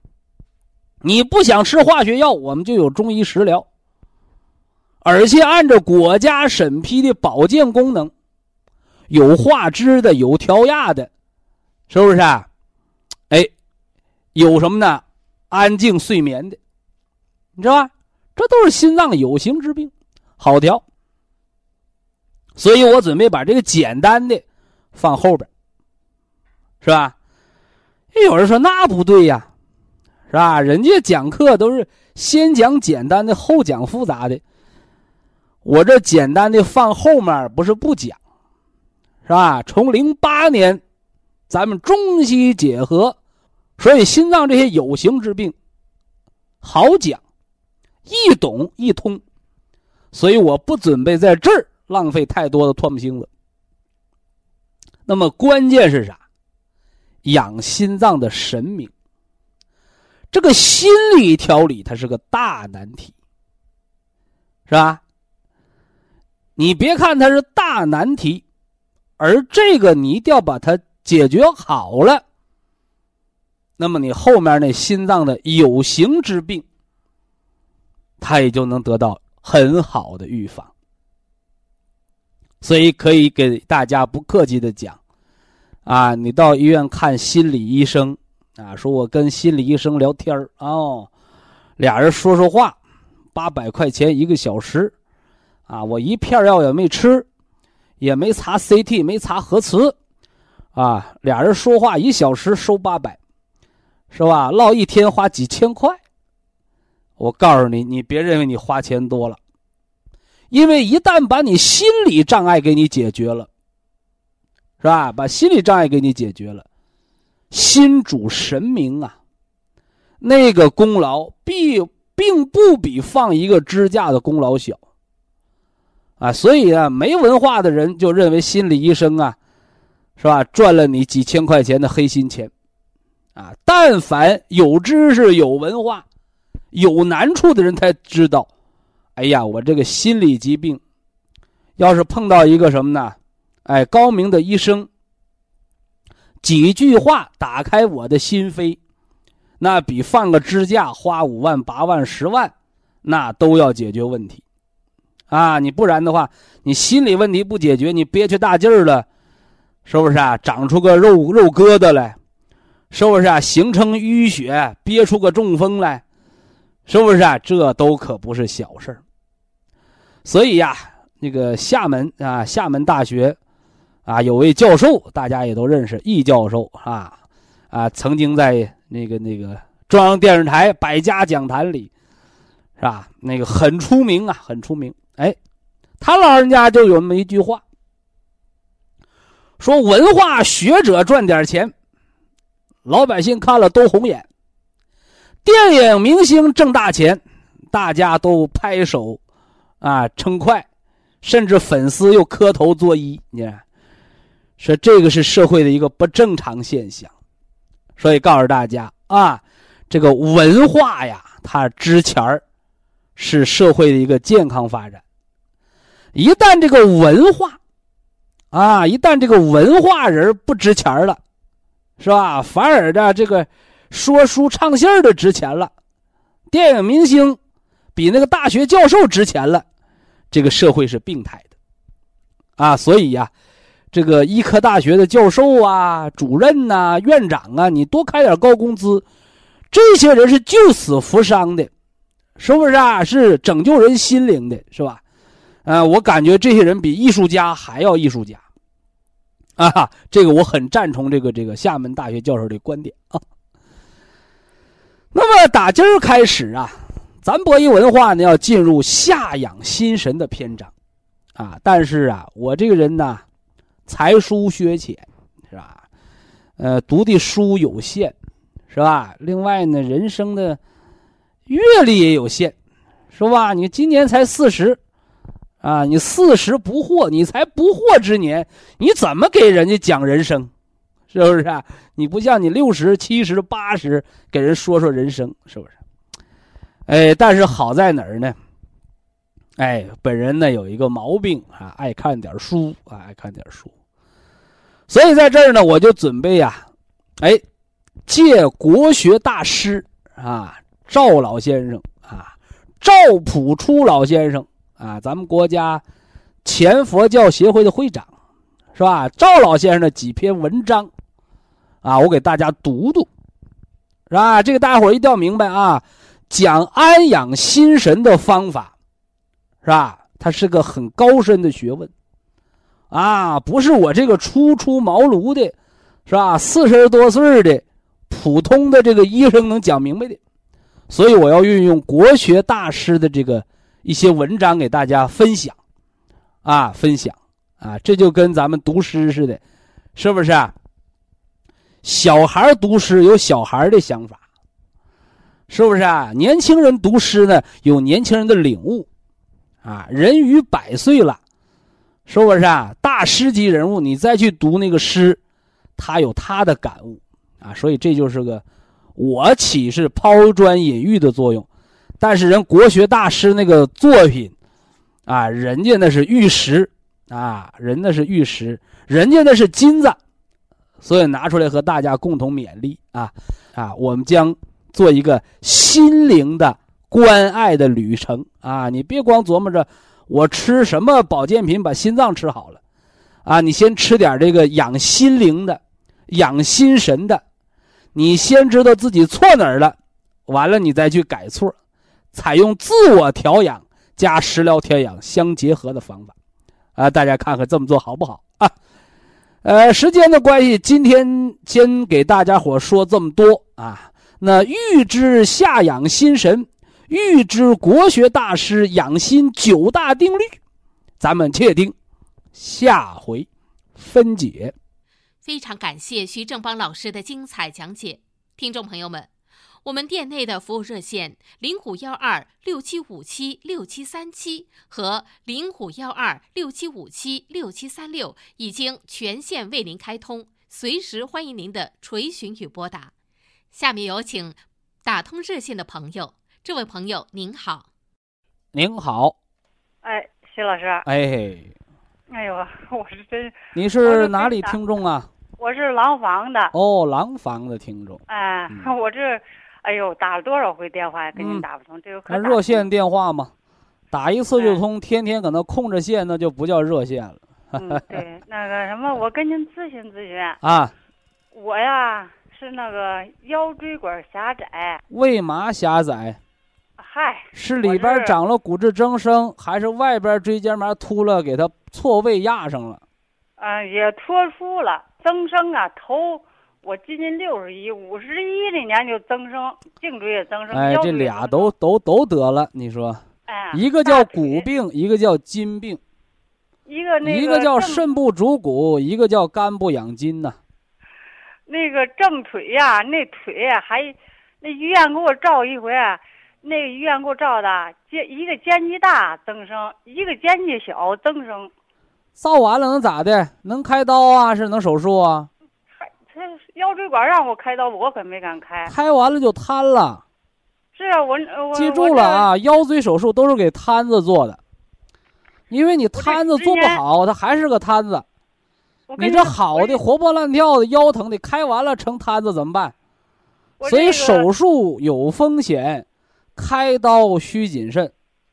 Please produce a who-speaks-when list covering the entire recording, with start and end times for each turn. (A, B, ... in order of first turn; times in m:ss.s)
0:01.0-0:03.6 A
0:05.0-0:08.1 A
0:09.1-0:11.1 A
0:11.9-0:12.5 A
0:14.3-0:16.6 A
0:17.6-0:20.8 A
0:22.6-0:25.5 A
0:26.8-0:27.1 A
0:28.1-0:29.5 A
0:30.3-0:34.4 A
0:35.6-0:38.2 A
0:39.2-0:40.8 A
0:41.5-0:43.2 A
0:43.8-0:45.5 A
0:46.6-0:47.2 A
0:48.0-0:49.2 A
0:50.1-0:53.3 A
0:55.1-0:56.2 A
0:57.2-0:58.9 A
1:00.3-1:03.1 A
1:04.7-1:05.0 A
1:06.6-1:08.4 A
1:09.2-1:12.2 A
1:13.8-1:16.6 A
1:18.2-1:20.7 A
1:22.6-1:25.0 A
1:25.8-1:31.1 A
1:31.8-1:32.8 A
1:33.3-1:34.9 A
1:35.7-1:37.2 A
1:38.0-1:39.9 A
1:40.7-1:43.2 A
1:44.1-1:46.0 A
1:47.2-1:49.4 A
1:50.5-1:53.5 A
1:54.8-1:56.6 A
1:57.5-1:59.1 A
2:00.2-2:04.8 A
2:06.2-2:09.4 A
2:10.2-2:12.5 A
2:13.4-2:16.0 A
2:16.7-2:18.5 A
2:19.2-2:20.8 A
2:21.8-2:24.9 A
2:26.4-2:28.8 A
2:29.6-2:32.5 A
2:33.0-2:34.4 A
2:35.3-2:39.0 A
2:39.8-2:42.2 A
2:42.9-2:46.0 A
2:46.9-2:49.0 A
2:50.2-2:53.4 A
2:54.0-2:57.2 A
2:57.7-3:01.9 A
3:02.8-3:05.4 A
3:06.0-3:07.6 A
3:09.6-3:11.7 A
3:12.8-3:14.3 A
3:15.4-3:17.2 A
3:17.7-3:19.2 A
3:19.8-3:20.6 A
3:21.2-3:23.6 A
3:24.6-3:27.1 A
3:28.0-3:32.4 A
3:33.2-3:35.0 A
3:36.1-3:37.6 A
3:38.5-3:41.2 A
3:42.0-3:45.7 A
3:46.5-3:47.4 A
3:47.9-3:49.6 A
3:50.3-3:51.5 A
3:52.6-3:53.3 A
3:53.9-3:59.0 A
3:59.7-4:01.7 A
4:02.4-4:05.0 A
4:05.6-4:08.4 A
4:09.6-4:13.2 A
4:15.1-4:20.7 A
4:21.4-4:23.2 A
4:23.9-4:25.8 A
4:26.6-4:28.1 A
4:28.7-4:30.6 A
4:31.5-4:32.5 A
4:33.1-4:34.8 A
4:35.6-4:40.5 A
4:41.1-4:45.7 A
4:46.9-4:48.4 A
4:49.6-4:53.7 A
4:54.9-4:56.6 A
4:58.0-5:05.8 A
5:06.4-5:08.1 A
5:08.7-5:10.9 A
5:11.8-5:13.1 A
5:14.1-5:18.7 A
5:19.6-5:21.9 A
5:22.9-5:25.5 A
5:26.1-5:30.2 A
5:30.9-5:35.6 A
5:36.4-5:39.4 A
5:39.9-5:40.5 A
5:41.8-5:44.2 A
5:45.5-5:48.9 A
5:49.6-5:51.2 A
5:52.1-5:55.2 A
5:55.8-5:58.4 A
5:59.0-6:01.4 A
6:02.0-6:04.3 A
6:05.1-6:10.0 A
6:10.8-6:22.6 A
6:23.2-6:27.2 A
6:27.9-6:29.8 A
6:30.3-6:31.5 A
6:32.1-6:36.1 A
6:36.8-6:38.5 A
6:39.4-6:50.3 A
6:51.0-6:51.7 A
6:52.3-6:54.5 A
6:55.2-6:59.1 B
6:59.6-7:12.9 B
7:13.5-7:17.7 B
7:18.5-7:19.1 A
7:19.8-7:20.8 C
7:20.8-7:21.5 A
7:22.1-7:24.6 C
7:23.5-7:25.1 A
7:25.4-7:26.5 C
7:26.5-7:28.7 A
7:28.1-7:32.6 C
7:31.2-7:31.4 A
7:32.1-7:33.3 A
7:33.9-7:38.0 A
7:34.4-7:34.6 C
7:37.6-7:40.4 C
7:40.4-7:40.7 A
7:41.3-7:44.8 C
7:44.9-7:46.2 A
7:46.8-7:48.1 C
7:47.3-7:52.8 A
7:53.4-8:01.5 C
8:00.5-8:03.0 A
8:03.3-8:04.4 C
8:03.5-8:05.8 A
8:06.6-8:08.0 C
8:07.0-8:10.4 A
8:11.5-8:21.5 C
8:22.2-8:25.3 A
8:25.8-8:28.7 C
8:28.6-8:30.0 A
8:30.7-8:32.3 C
8:31.5-8:34.4 A
8:35.5-8:38.0 A
8:35.9-8:36.8 C
8:38.9-8:39.8 C
8:39.0-8:42.7 A
8:43.6-8:44.3 C
8:43.6-8:45.8 A
8:46.4-8:47.9 A